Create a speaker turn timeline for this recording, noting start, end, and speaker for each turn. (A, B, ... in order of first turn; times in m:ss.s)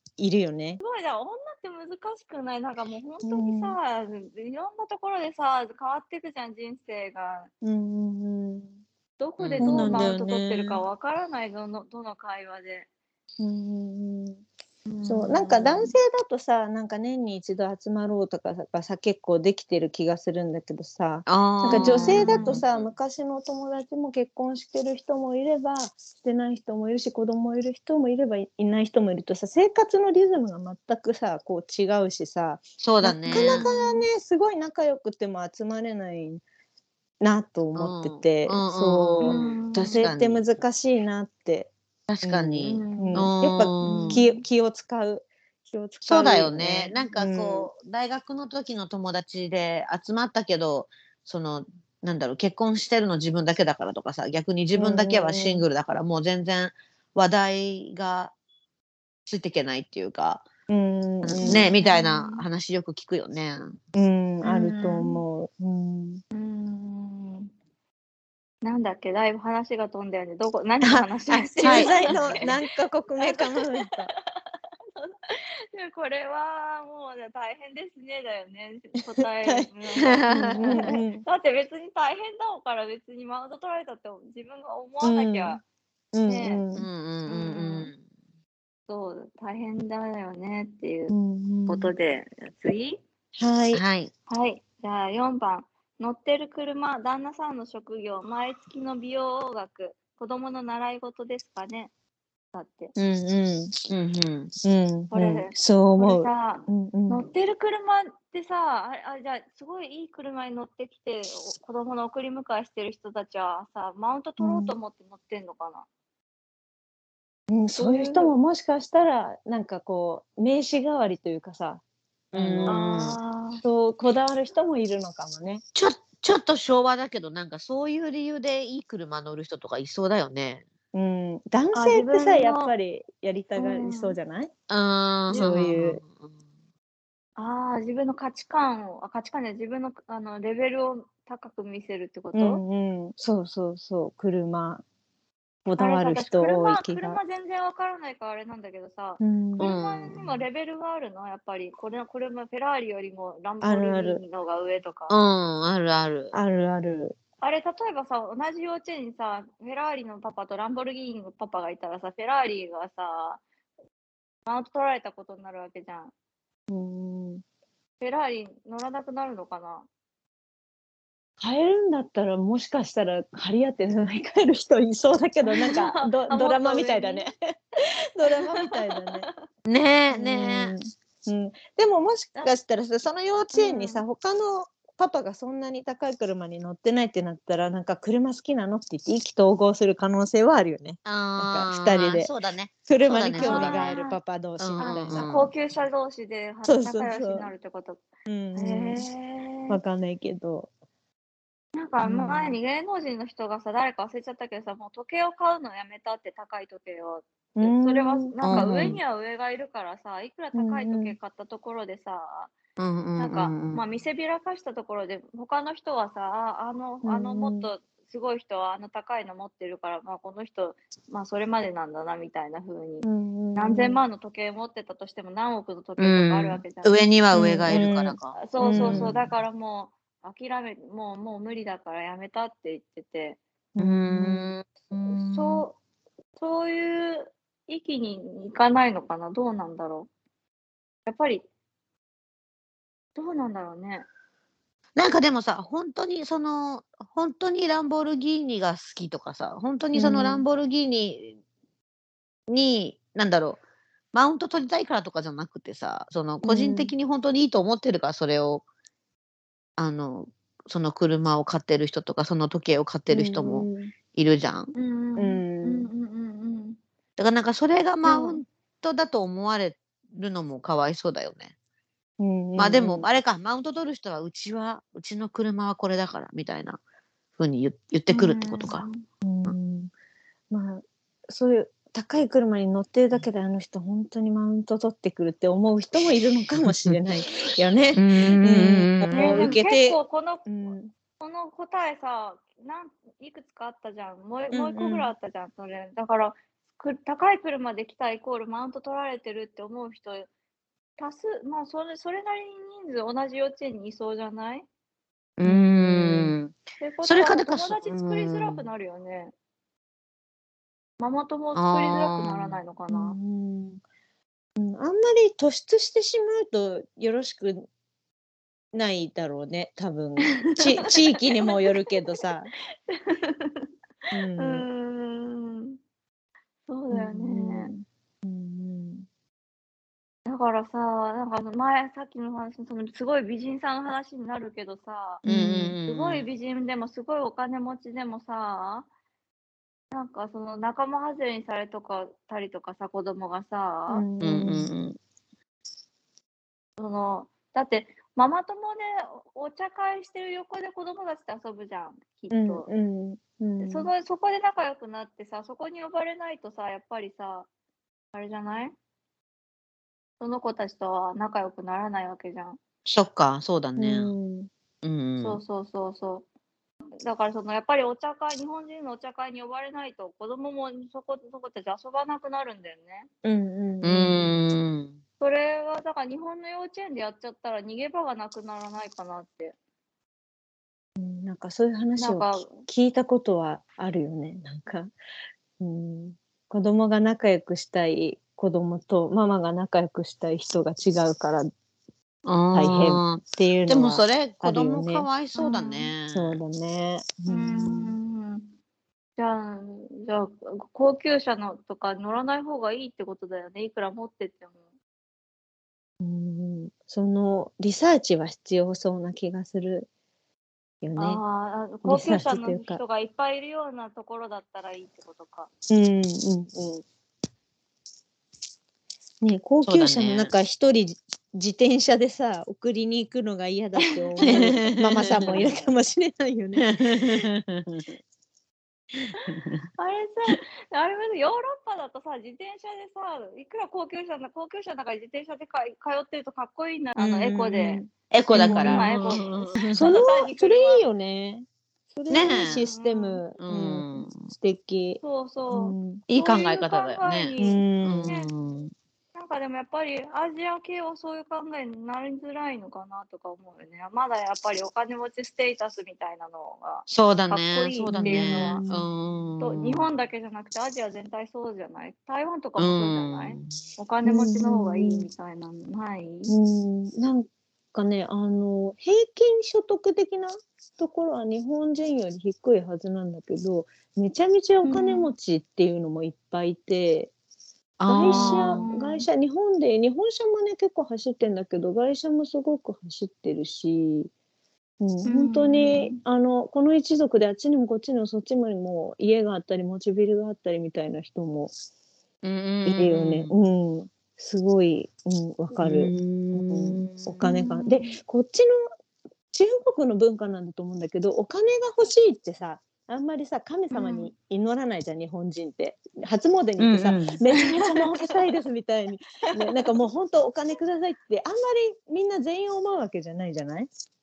0:00.2-0:00.8 A
0:00.8-0:07.5 B
0:03.2-0:03.8 A
0:07.6-0:08.7 A
0:09.2-0:12.9 B
0:09.4-0:10.8 C
0:09.6-0:10.2 A
0:13.4-0:14.4 A
0:14.9-0:15.9 B
0:15.0-0:36.4 A
0:21.2-0:22.8 C
0:21.7-0:22.6 B
0:32.8-0:33.6 C
0:33.3-0:34.0 B
0:37.2-0:41.7 A
0:37.8-0:40.4 C
0:39.2-0:40.1 B
0:42.1-0:44.2 C
0:42.2-0:47.7 A
0:42.6-0:44.4 B
0:46.0-0:58.3 C
0:54.7-0:55.6 A
0:59.2-1:00.4 C
1:00.7-1:01.7 A
1:01.2-1:03.8 C
1:01.4-1:02.4 B
1:03.9-1:06.2 A
1:04.4-1:05.2 B
1:06.3-1:07.5 B
1:08.6-1:12.5 B
1:10.8-1:14.1 A
1:11.6-1:12.3 C
1:13.2-1:13.7 B
1:14.9-1:25.6 B
1:20.0-1:20.9 C
1:20.3-1:21.2 A
1:25.0-1:25.6 A
1:26.1-1:26.8 A
1:26.3-1:26.6 B
1:26.7-1:28.0 C
1:27.3-1:27.9 B
1:28.9-1:31.1 B
1:31.1-1:31.9 A
1:31.7-1:33.0 B
1:33.4-1:33.8 A
1:33.7-1:34.1 C
1:34.3-1:41.9 B
1:42.5-1:42.9 B
1:43.0-1:43.7 A
1:43.9-1:44.5 C
1:44.6-1:47.2 A
1:45.1-1:55.9 B
1:54.4-1:54.7 A
1:57.5-2:01.8 A
1:57.8-1:58.3 B
2:02.3-2:03.2 C
2:02.3-2:02.8 A
2:02.7-2:03.6 B
2:03.6-2:05.6 A
2:05.7-2:10.6 C
2:10.9-2:14.5 A
2:11.7-2:12.7 B
2:13.6-2:14.2 B
2:14.7-2:16.2 C
2:15.3-2:16.0 A
2:17.4-2:22.6 B
2:22.3-2:24.8 A
2:25.6-2:27.2 A
2:25.8-2:35.2 B
2:29.2-2:29.7 A
2:29.6-2:30.3 C
2:33.6-2:34.2 A
2:35.1-2:36.3 C
2:36.3-2:37.2 A
2:37.4-2:43.4 B
2:44.4-2:46.1 B
2:46.7-2:47.4 A
2:48.0-2:49.9 B
2:51.4-2:57.3 A
2:55.4-2:57.3 B
2:58.1-2:59.2 A
2:58.3-2:59.3 B
2:59.7-3:00.7 C
3:00.1-3:12.3 A
3:03.5-3:04.0 B
3:11.0-3:14.0 C
3:12.9-3:15.3 A
3:13.4-3:14.2 B
3:14.6-3:15.5 C
3:14.8-3:18.0 B
3:16.6-3:17.5 A
3:18.3-3:19.0 A
3:18.5-3:19.8 B
3:19.7-3:20.7 A
3:21.8-3:32.5 B
3:22.0-3:22.6 A
3:27.6-3:29.0 A
3:28.4-3:29.0 C
3:30.5-3:31.2 A
3:32.8-3:33.8 C
3:33.2-3:47.0 B
3:37.0-3:37.7 A
3:43.0-3:44.0 A
3:46.0-3:49.2 C
3:47.3-3:49.2 A
3:48.4-3:53.4 B
3:53.7-3:54.5 A
3:53.8-3:55.6 C
3:55.1-3:55.8 B
3:56.4-4:00.1 B
4:01.0-4:01.4 B
4:03.2-4:04.0 B
4:05.0-4:11.4 C
4:09.9-4:10.4 A
4:12.5-4:13.6 C
4:14.1-4:18.6 C
4:16.4-4:16.9 A
4:19.8-4:24.7 C
4:23.1-4:23.9 A
4:24.7-4:26.8 B
4:25.2-4:25.9 A
4:27.2-4:31.5 C
4:28.0-4:28.4 B
4:32.2-4:33.0 A
4:32.6-4:36.8 C
4:37.4-4:38.9 C
4:38.1-4:39.0 B
4:39.2-4:39.9 A
4:40.5-4:50.9 A
4:48.0-4:49.6 C
4:49.1-4:50.5 B
4:51.2-5:00.3 B
4:54.5-4:55.1 A
5:01.0-5:04.6 B
5:05.4-5:08.6 C
5:05.4-5:06.3 A
5:06.8-5:09.3 B
5:11.0-5:13.2 B
5:11.5-5:12.6 C
5:12.9-5:13.8 A
5:14.6-5:17.7 A
5:18.7-5:22.5 A
5:20.4-5:22.0 B
5:22.9-5:23.7 B
5:24.1-5:24.6 A
5:24.3-5:25.8 B
5:26.7-5:27.7 B
5:26.9-5:29.0 A
5:30.2-5:35.2 B
5:35.2-5:35.7 A
5:35.2-5:36.2 C
5:35.8-5:38.9 B
5:39.9-5:44.0 B
5:43.9-5:44.7 A
5:44.2-5:45.0 C
5:46.8-5:52.7 B
5:52.3-5:53.9 A
5:53.6-5:57.5 B
5:58.1-5:58.7 B
6:00.2-6:02.6 B
6:02.8-6:04.1 C
6:03.8-6:04.5 A
6:04.8-6:05.4 C
6:05.2-6:06.2 B
6:07.0-6:13.1 B
6:13.2-6:14.3 A
6:13.8-6:15.0 C
6:15.2-6:19.5 B
6:21.0-6:24.9 A
6:22.0-6:22.6 B
6:25.6-6:31.5 A
6:32.2-6:36.4 C
6:32.5-6:35.1 A
6:35.4-6:35.9 B
6:36.1-6:37.9 A
6:37.3-6:38.5 B
6:39.2-6:44.6 B
6:46.0-6:49.9 A
6:50.8-6:51.2 A
6:51.0-6:55.5 B
6:51.8-6:52.8 A
6:55.7-6:56.8 A
6:59.2-7:07.3 A
6:59.6-7:00.3 C
7:04.1-7:04.4 B
7:04.2-7:05.6 C
7:06.6-7:08.0 C
7:09.2-7:09.6 C
7:09.8-7:20.8 B
7:17.0-7:19.1 A
7:18.1-7:19.9 C
7:19.7-7:26.0 A
7:22.1-7:22.6 C
7:22.5-7:23.2 B
7:23.4-7:24.3 C
7:25.0-7:28.3 B
7:26.1-7:28.7 C
7:27.4-7:28.1 A
7:29.1-7:38.6 B
7:36.9-7:39.9 C
7:37.9-7:38.9 A
7:39.4-7:46.4 B
7:42.6-7:43.5 C
7:44.0-7:45.1 A
7:46.3-7:57.1 A
7:54.6-7:55.1 B
7:57.8-7:58.6 C
7:57.9-7:59.0 B
7:57.9-8:04.1 A
8:04.8-8:11.5 A
8:05.0-8:06.0 B
8:12.2-8:13.3 C
8:12.6-8:18.7 A
8:15.6-8:17.2 C
8:17.3-8:17.9 B
8:19.3-8:33.7 A
8:23.7-8:24.1 B
8:26.6-8:27.2 C